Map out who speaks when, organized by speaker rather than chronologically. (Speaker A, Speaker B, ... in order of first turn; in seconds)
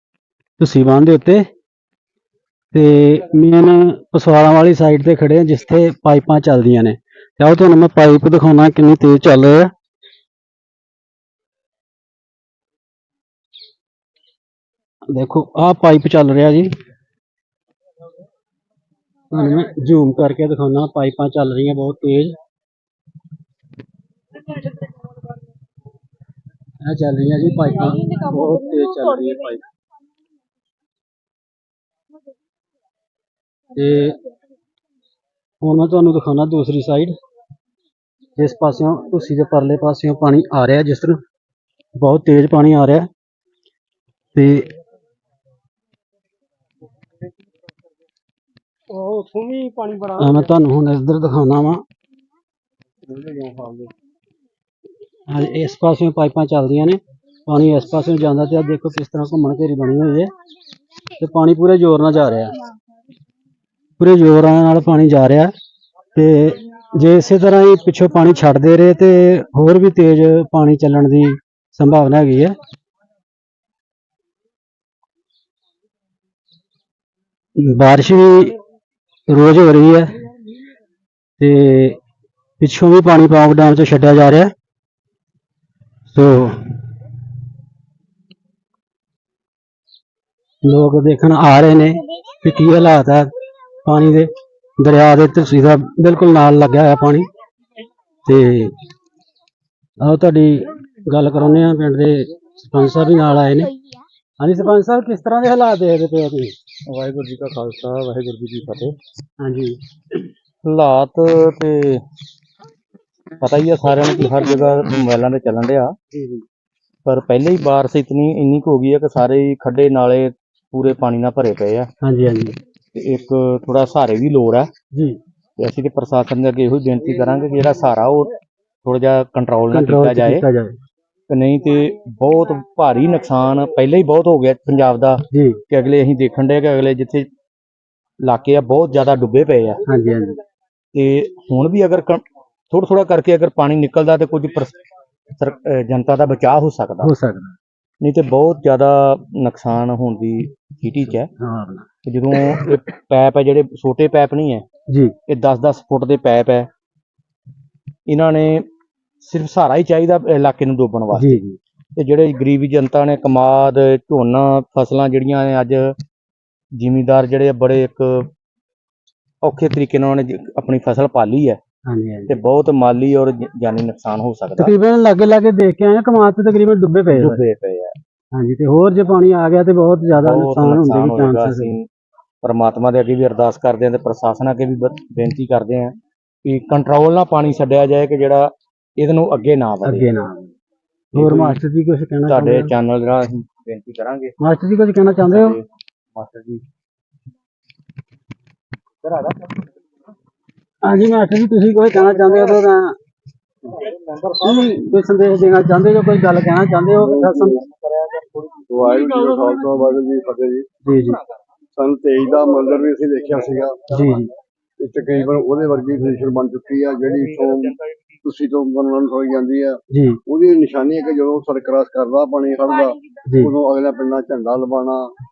Speaker A: 0.6-1.5, 2.7-9.7, 15.1-16.7, 19.3-22.4, 26.9-29.6, 33.8-34.2, 35.6-37.1, 38.4-41.2, 42.0-43.1, 44.4-44.7, 50.1-51.8, 55.3-60.3, 61.2-62.6, 64.0-65.5, 66.2-72.6, 77.6-78.6, 79.3-80.2, 81.4-82.0, 82.6-84.5, 86.1-86.7, 90.7-93.3, 93.8-97.3, 98.3-98.8, 100.0-103.7, 104.4-106.6, 109.4-109.8, 116.1-116.4, 122.0-122.6, 129.7-130.8, 135.3-135.6, 139.9-140.4, 147.0-147.6, 151.4-151.9, 154.9-155.2, 161.1-161.6, 171.9-172.4, 174.6-177.4, 178.3-181.7, 189.8-190.5, 191.2-192.7, 194.4-195.6, 200.8-202.9, 204.4-207.7, 210.8-211.2, 213.9-214.3, 219.9-220.2
Speaker B: 49.0-50.0, 53.1-53.9, 207.0-207.5, 208.7-210.7, 211.8-214.2, 214.8-225.1
Speaker C: 106.9-108.9, 110.6-112.0, 113.4-115.9, 117.1-121.9, 123.0-124.7, 125.6-128.3, 128.8-130.4, 131.3-137.3, 138.2-139.8, 140.9-144.7, 145.4-147.1, 148.0-151.3, 152.1-154.6, 155.3-156.7, 158.1-158.7, 159.2-161.4, 162.0-165.9, 166.8-168.3, 169.4-171.6, 172.3-174.7, 177.1-177.9, 180.2-181.9, 182.4-185.9, 186.4-190.1, 191.1-191.6, 192.3-194.3, 195.3-196.6, 199.0-199.6, 203.8-204.7, 207.8-208.6